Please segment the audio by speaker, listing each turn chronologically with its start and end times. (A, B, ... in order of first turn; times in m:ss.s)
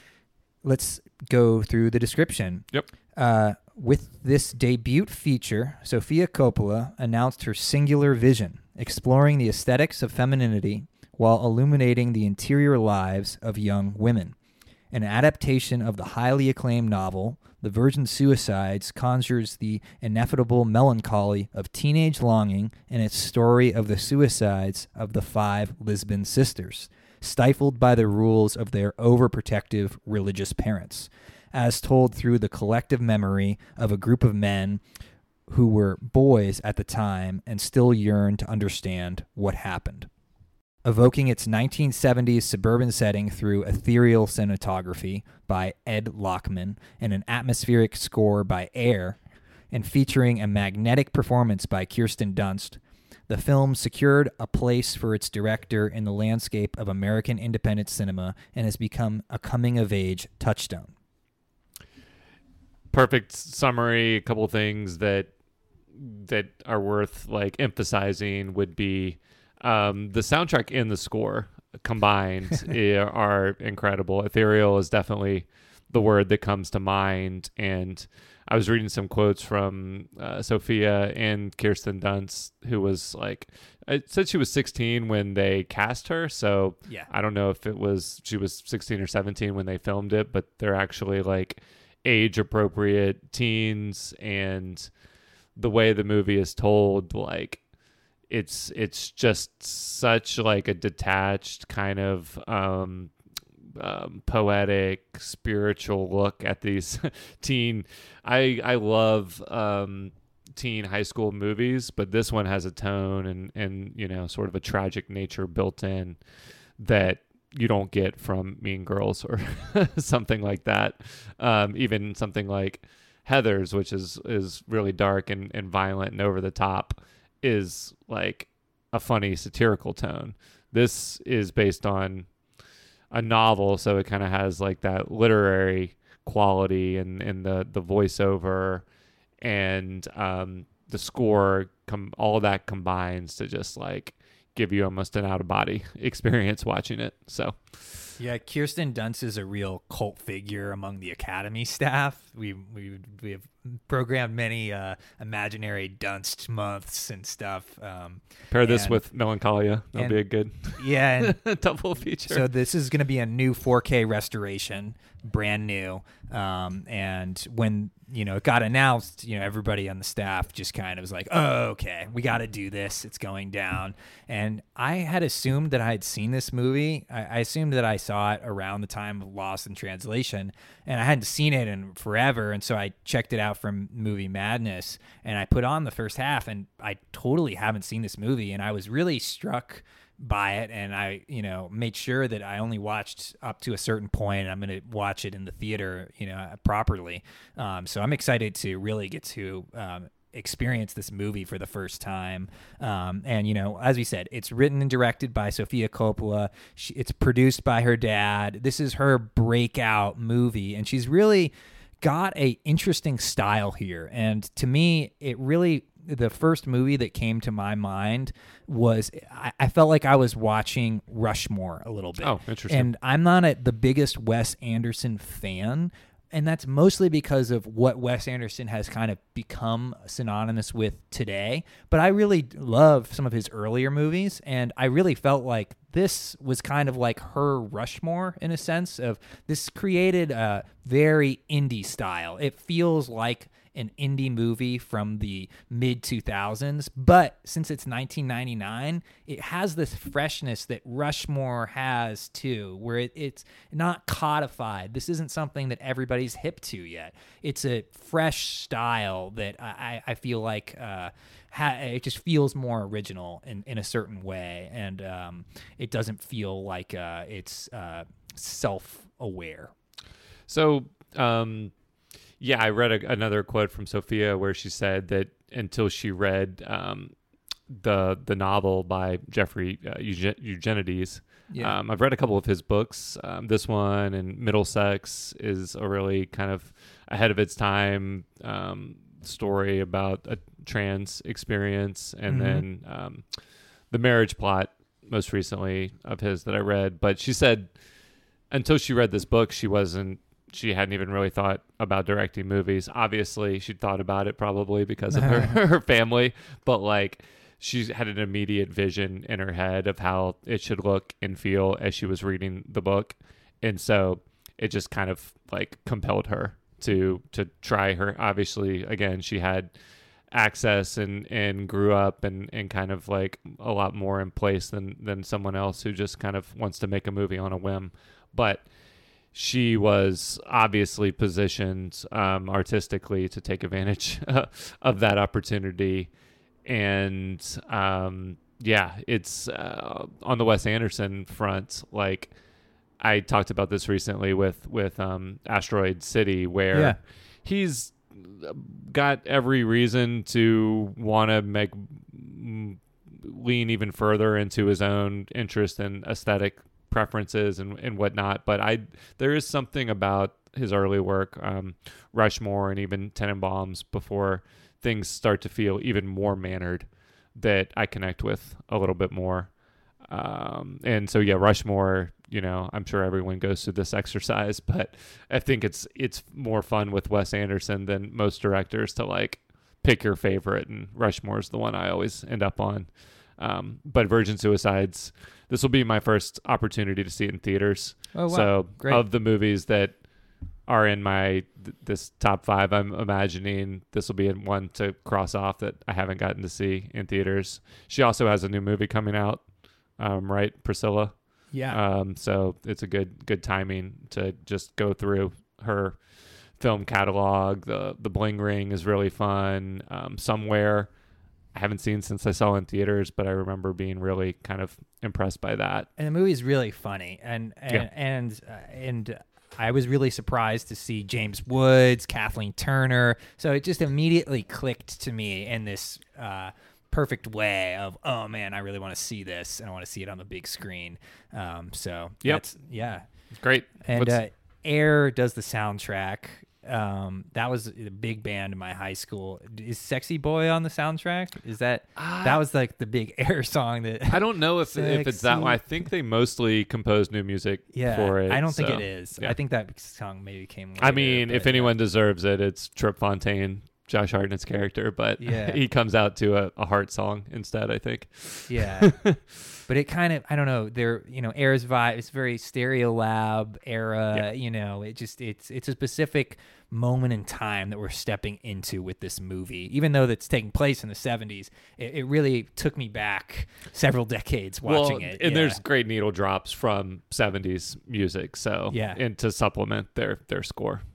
0:00.6-0:14.4 A
0:14.9-0:34.8 A
0:35.5-0:40.1 A
0:40.8-0:49.2 A
0:49.7-1:00.9 A
1:02.9-1:05.3 B
1:05.9-1:34.9 B
1:35.6-1:37.6 B
1:38.3-1:43.1 B
1:43.8-1:56.2 B
1:56.8-2:12.3 B
2:13.1-2:18.8 B
2:19.4-2:28.1 B
2:28.2-2:39.0 A
2:38.5-2:42.4 B
2:39.9-2:41.4 A
2:42.2-4:29.7 A
3:42.2-3:42.9 B
4:30.5-4:31.7 B
4:32.4-4:37.1 B
4:37.7-4:53.3 B
4:41.5-4:41.8 A
4:52.3-4:52.6 A
4:53.9-4:57.7 B
4:58.5-5:19.7 B
5:05.1-5:05.6 A
5:20.3-5:28.6 B
5:29.3-5:36.1 B
5:36.6-5:42.3 B
5:43.0-6:09.5 B
5:46.7-5:47.0 A
6:10.0-6:30.0 B
6:28.1-6:29.0 A
6:30.7-6:39.4 B
6:40.0-6:41.1 B
6:41.5-6:41.8 A
6:41.7-6:46.0 B
6:46.6-6:50.9 B
6:51.5-6:55.9 B
6:56.0-7:13.1 A
7:13.3-7:14.2 B
7:13.8-7:25.7 A
7:22.0-7:22.4 B
7:24.1-7:29.4 B
7:27.7-7:31.8 A
7:30.8-7:39.5 B
7:35.2-7:35.6 A
7:38.5-7:38.9 A
7:39.7-7:55.6 A
7:54.6-8:00.8 B
7:58.7-7:59.0 A